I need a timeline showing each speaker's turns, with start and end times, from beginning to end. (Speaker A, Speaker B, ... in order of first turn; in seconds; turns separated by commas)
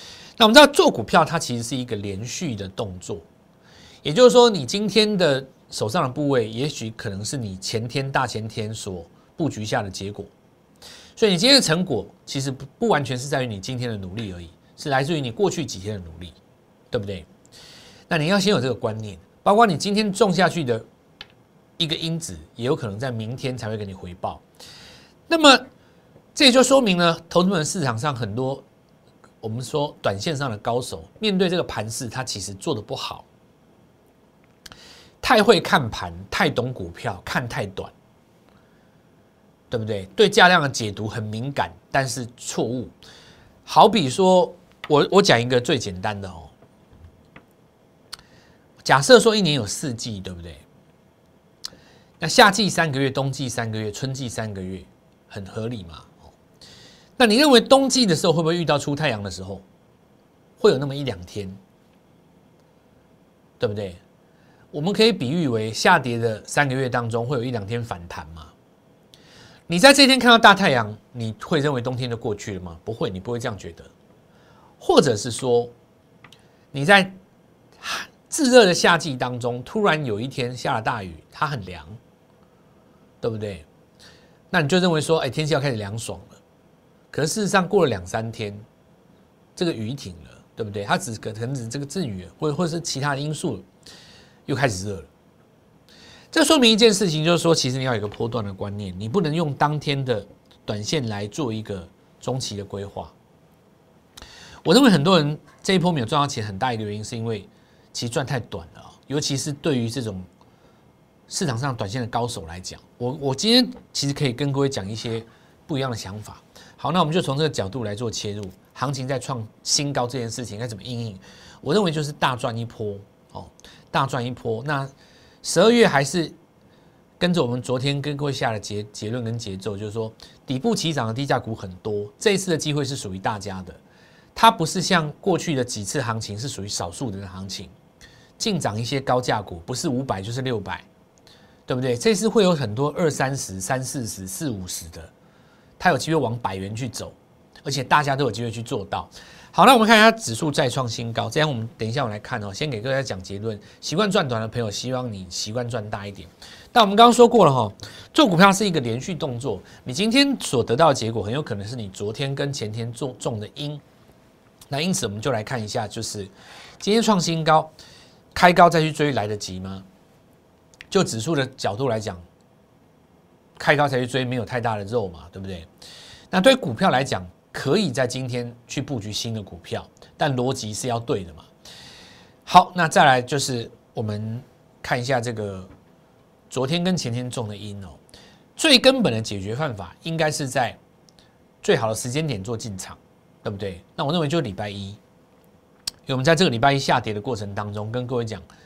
Speaker A: 0.4-3.2, Speaker A: 4.0-10.3, Speaker A: 11.2-16.4, Speaker A: 16.9-17.3, Speaker A: 18.1-20.9, Speaker A: 21.8-24.4, Speaker A: 25.3-25.6, Speaker A: 26.3-28.6, Speaker A: 29.4-33.2, Speaker A: 35.2-37.9, Speaker A: 39.7-42.9, Speaker A: 43.6-46.5, Speaker A: 48.8-50.6, Speaker A: 52.2-56.3, Speaker A: 57.2-59.6, Speaker A: 60.6-61.6, Speaker A: 63.6-64.0, Speaker A: 64.7-68.5, Speaker A: 69.7-73.9, Speaker A: 74.8-75.7, Speaker A: 76.7-77.2, Speaker A: 77.8-82.0, Speaker A: 83.2-83.7, Speaker A: 84.5-86.4, Speaker A: 87.1-88.6, Speaker A: 89.5-93.7, Speaker A: 94.5-95.1, Speaker A: 96.3-103.1, Speaker A: 104.6-110.3, Speaker A: 111.3-124.9, Speaker A: 125.4-126.3, Speaker A: 127.2-133.8, Speaker A: 134.3-137.7, Speaker A: 138.4-140.8, Speaker A: 141.7-145.1, Speaker A: 145.8-163.8, Speaker A: 164.7-167.7, Speaker A: 168.3-169.8, Speaker A: 170.9-172.2, Speaker A: 173.6-175.7, Speaker A: 176.3-181.5, Speaker A: 182.4-185.7, Speaker A: 186.5-188.0, Speaker A: 188.6-190.8, Speaker A: 191.6-195.0, Speaker A: 196.1-198.4